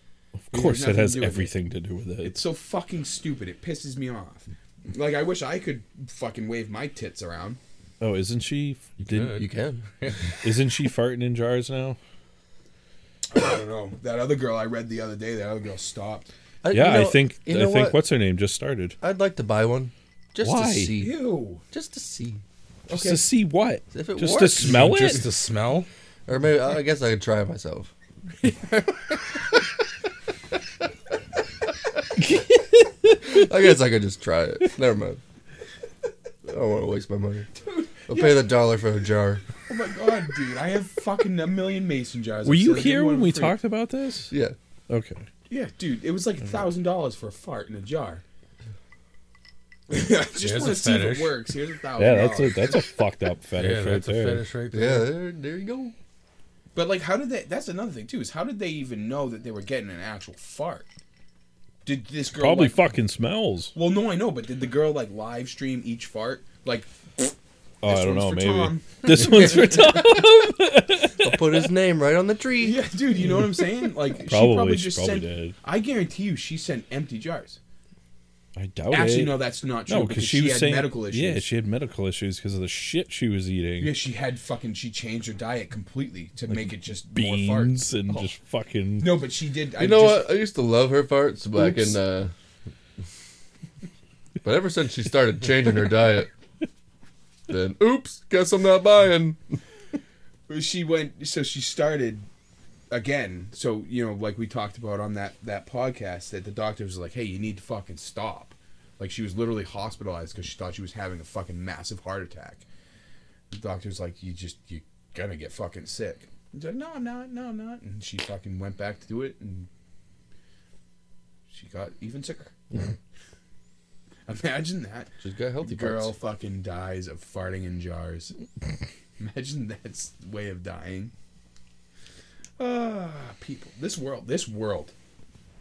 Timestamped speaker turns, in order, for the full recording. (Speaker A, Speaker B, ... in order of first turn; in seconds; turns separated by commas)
Speaker A: 0.4-2.4, Speaker B: 0.5-1.5, Speaker B: 2.2-7.6, Speaker A: 8.0-9.4, Speaker C: 9.0-9.5, Speaker D: 9.4-10.1, Speaker A: 10.4-12.0, Speaker B: 13.3-16.3, Speaker D: 16.6-18.0, Speaker A: 16.7-18.9, Speaker D: 19.0-21.2, Speaker A: 20.4-20.9, Speaker B: 21.0-21.6, Speaker D: 21.7-22.4, Speaker B: 22.9-23.2, Speaker A: 22.9-25.2, Speaker D: 23.9-24.9, Speaker C: 24.6-25.9, Speaker D: 26.3-29.6, Speaker A: 32.2-33.5, Speaker D: 33.2-35.2, Speaker D: 36.4-37.5, Speaker B: 37.7-38.4, Speaker D: 38.1-39.4, Speaker B: 39.7-43.5, Speaker A: 42.4-44.3, Speaker D: 44.3-44.5, Speaker A: 44.9-45.2, Speaker B: 45.5-48.2, Speaker B: 49.9-52.9, Speaker C: 50.4-51.4, Speaker A: 52.0-54.4, Speaker C: 53.5-55.1, Speaker D: 54.7-55.9, Speaker B: 56.7-60.9, Speaker B: 61.8-62.8, Speaker A: 62.3-63.7, Speaker B: 63.7-69.9, Speaker A: 67.8-71.7, Speaker D: 71.2-72.8, Speaker B: 72.6-77.6, Speaker A: 74.2-75.5, Speaker A: 78.5-83.9, Speaker B: 78.9-81.5, Speaker B: 83.8-88.3, Speaker A: 86.5-89.2, Speaker B: 89.0-90.3, Speaker D: 89.8-92.3, Speaker B: 91.5-92.0, Speaker D: 94.4-96.3, Speaker D: 97.5-99.6, Speaker B: 100.5-102.2, Speaker B: 102.9-112.6, Speaker B: 113.5-119.7, Speaker B: 121.5-122.8, Speaker B: 124.3-128.3, Speaker D: 125.2-126.1, Speaker B: 129.2-131.1, Speaker B: 132.6-134.9